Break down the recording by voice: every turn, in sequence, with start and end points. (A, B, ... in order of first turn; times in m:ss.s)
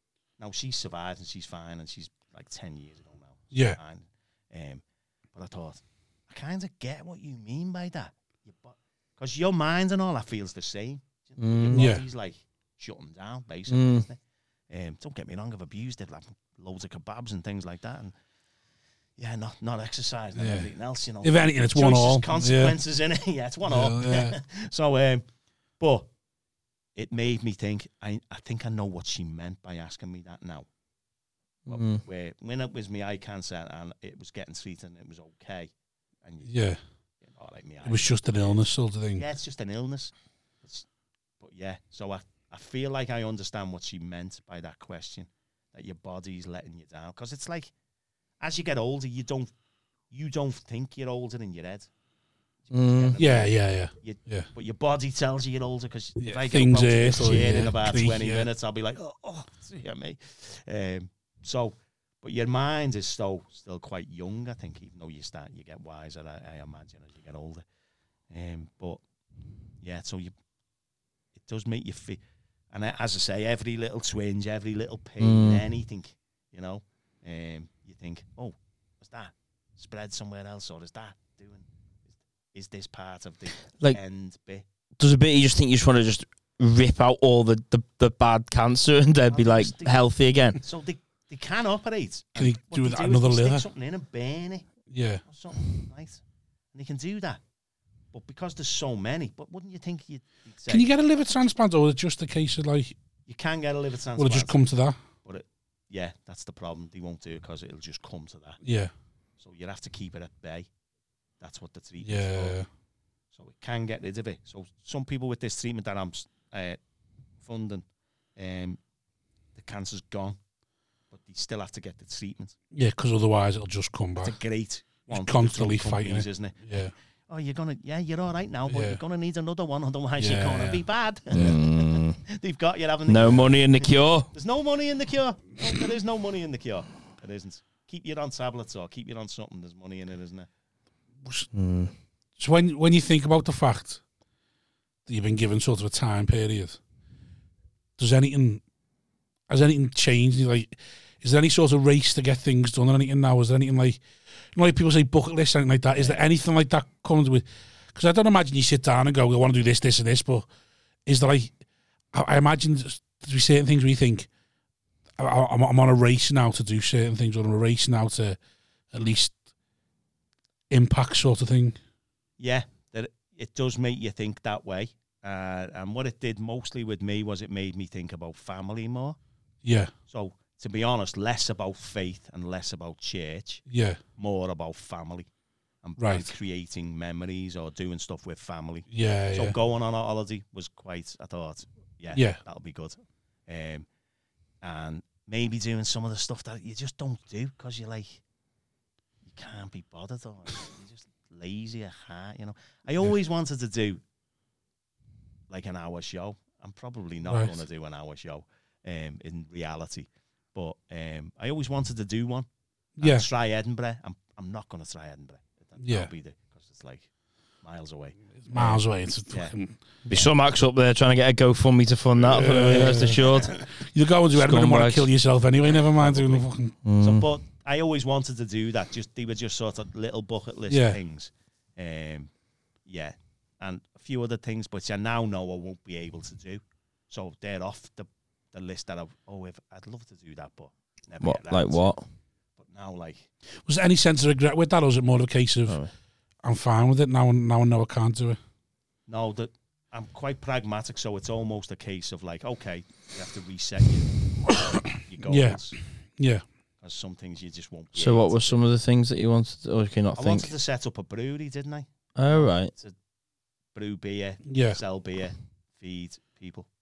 0:00.4-0:18.1 A
0:03.5-0:03.8 B
0:11.4-0:11.9 C
0:11.7-0:12.0 B
0:13.7-0:14.0 C
0:19.2-0:25.2 A
0:20.4-0:20.7 B
0:21.2-0:22.8 B
0:23.7-0:24.4 B
0:25.8-0:26.1 A
0:27.0-0:30.7 A
0:31.7-0:35.7 A
0:31.7-0:32.0 C
0:36.2-0:36.5 A
0:36.5-0:36.8 B
0:37.2-0:38.6 A
0:37.8-0:39.2 B
0:39.1-0:40.9 A
0:41.4-0:47.7 A
0:48.4-0:49.5 A
0:50.1-0:51.9 A
0:52.7-1:07.6 A
0:52.7-0:53.2 C
0:53.2-0:54.5 B
0:56.2-0:58.5 B
1:08.3-1:09.0 A
1:09.8-1:10.3 A
1:11.3-1:21.7 A
1:15.2-1:15.6 C
1:22.5-1:24.6 A
1:25.0-1:30.6 C
1:29.3-1:30.0 A
1:30.6-1:34.7 A
1:32.4-1:33.6 B
1:34.9-1:35.2 B
1:35.2-1:36.2 A
1:36.7-1:37.4 A
1:38.1-1:41.4 A
1:40.7-1:42.9 B
1:43.3-1:44.6 A
1:44.2-1:45.0 B
1:45.2-1:48.6 A
1:48.6-1:48.9 B
1:49.4-1:50.7 A
1:51.4-1:52.6 A
1:52.0-1:52.7 B
1:53.3-1:56.8 A
1:57.4-1:57.8 A
1:58.4-1:58.8 A
1:59.6-2:00.4 A
2:01.1-2:02.6 A
2:02.7-2:04.4 B
2:04.2-2:06.6 A
2:05.1-2:06.9 B
2:07.3-2:20.5 A
2:08.7-2:09.0 B
2:10.2-2:10.8 B
2:11.3-2:12.2 C
2:13.1-2:14.3 C
2:21.5-2:21.9 C
2:22.4-2:24.0 B
2:25.1-2:26.8 B
2:28.0-2:28.6 B
2:29.5-2:34.0 B
2:34.6-2:40.5 B
2:36.0-2:36.2 A
2:41.1-2:41.6 B
2:42.1-2:44.3 B
2:45.2-2:48.4 B
2:48.9-2:49.4 B
2:50.7-2:51.8 B
2:52.4-2:59.2 A
2:59.6-2:59.9 B
3:00.1-3:03.6 A
3:03.7-3:04.0 B
3:04.2-3:05.3 A
3:05.8-3:13.9 A
3:06.0-3:06.3 B
3:08.9-3:09.6 B
3:12.1-3:12.4 B
3:14.6-3:18.2 A
3:19.2-3:24.0 A
3:25.5-3:32.5 A
3:27.3-3:27.6 B
3:33.0-3:33.3 B
3:33.0-3:37.1 A
3:35.8-3:36.1 B
3:37.6-3:38.8 A
3:38.5-3:39.8 B
3:40.1-3:43.6 C
3:42.2-3:46.8 B
3:42.8-3:43.6 A
3:44.3-3:45.1 C
3:45.9-3:46.5 A
3:46.8-3:47.3 C
3:47.0-3:52.3 A
3:50.7-3:51.0 B
3:52.8-4:01.9 A
4:01.2-4:02.0 C
4:02.6-4:03.3 A
4:03.7-4:05.8 B
4:06.4-4:08.4 B
4:09.1-4:15.8 A
4:15.2-4:15.6 B
4:16.2-4:16.4 B
4:16.8-4:18.6 A
4:18.0-4:20.5 C
4:20.2-4:23.0 A
4:22.2-4:22.7 C
4:23.7-4:26.7 A
4:24.5-4:24.8 B